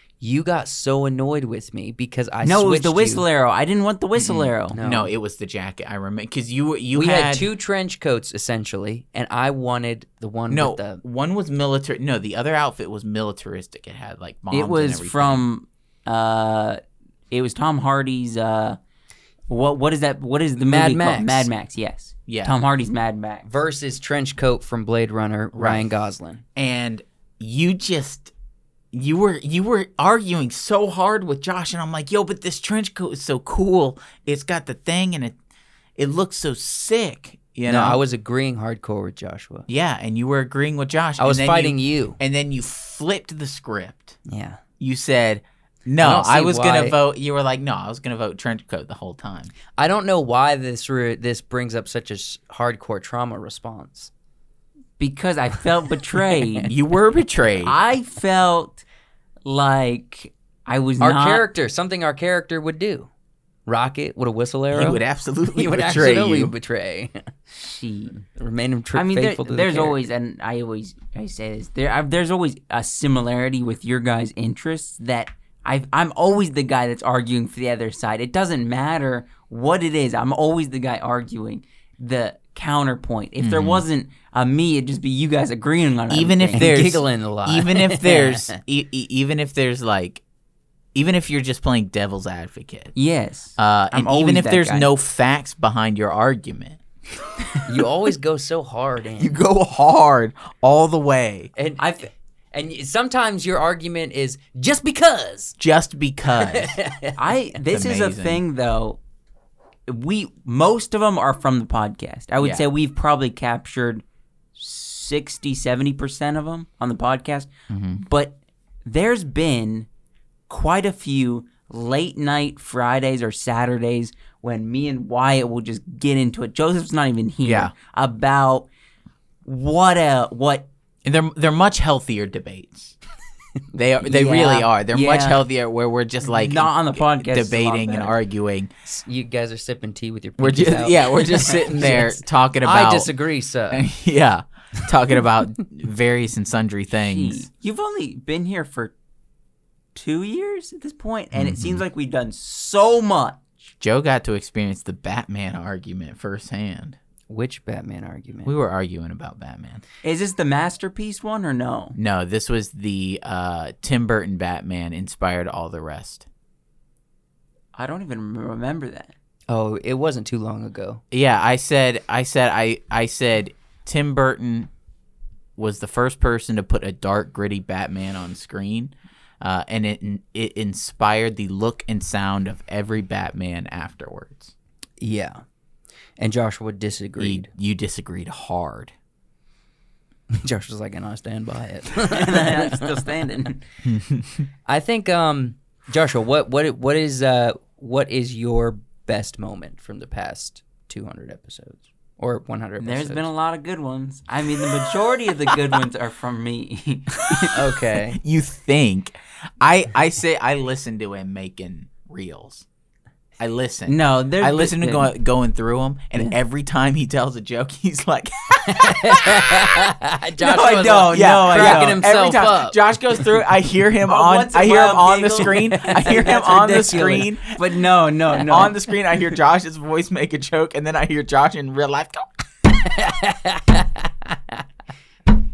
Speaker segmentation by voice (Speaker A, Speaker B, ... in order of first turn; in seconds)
Speaker A: 0.2-3.2, 4.7-5.1, 7.0-11.0, 20.6-21.5, 23.4-26.4, 37.7-39.7, 41.2-42.2, 44.3-44.6, 46.0-47.0, 49.8-54.1, 61.0-63.1, 63.7-65.0, 65.5-67.3, 68.4-70.0, 86.5-88.6, 97.7-99.3, 101.6-105.6, 106.4-107.2, 138.9-143.9, 157.3-158.6, 169.5-171.0, 185.0-185.4, 186.2-187.5, 190.3-193.1, 194.7-203.3, 207.5-208.2, 218.7-222.8, 225.7-227.3, 232.8-234.6
Speaker B: 2.4-4.8, 14.5-18.8, 19.5-23.5, 55.0-56.7, 57.6-58.8, 59.5-61.5, 67.5-68.2, 68.9-86.7, 93.0-94.9, 107.2-109.0, 109.9-114.0, 114.5-117.5, 118.0-119.9, 120.5-128.7, 129.5-130.7, 134.0-135.4, 136.3-138.2, 146.9-148.9, 149.9-153.7, 160.0-162.0, 167.8-169.1, 192.0-193.7, 202.8-207.6, 213.9-215.1, 220.4-222.0, 224.0-228.8
Speaker C: 4.2-7.5, 10.5-15.4, 22.3-22.6, 25.5-25.9, 26.6-28.3, 28.9-35.4, 36.0-38.0, 39.7-44.2, 44.8-49.5, 56.6-57.8, 64.7-66.5, 83.4-83.8, 86.1-90.2, 91.0-92.9, 93.6-97.6, 99.2-101.5, 105.6-106.8, 107.7-108.4, 117.7-118.0, 127.4-127.7, 131.0-133.0, 133.7-138.7, 140.4-143.1, 143.7-147.5, 151.3-151.8, 153.8-157.0, 158.4-159.8, 161.9-166.3, 171.1-174.7, 175.6-184.5, 187.2-188.9, 193.8-194.5, 208.1-212.7, 213.4-219.5, 220.8-227.7, 228.4-232.3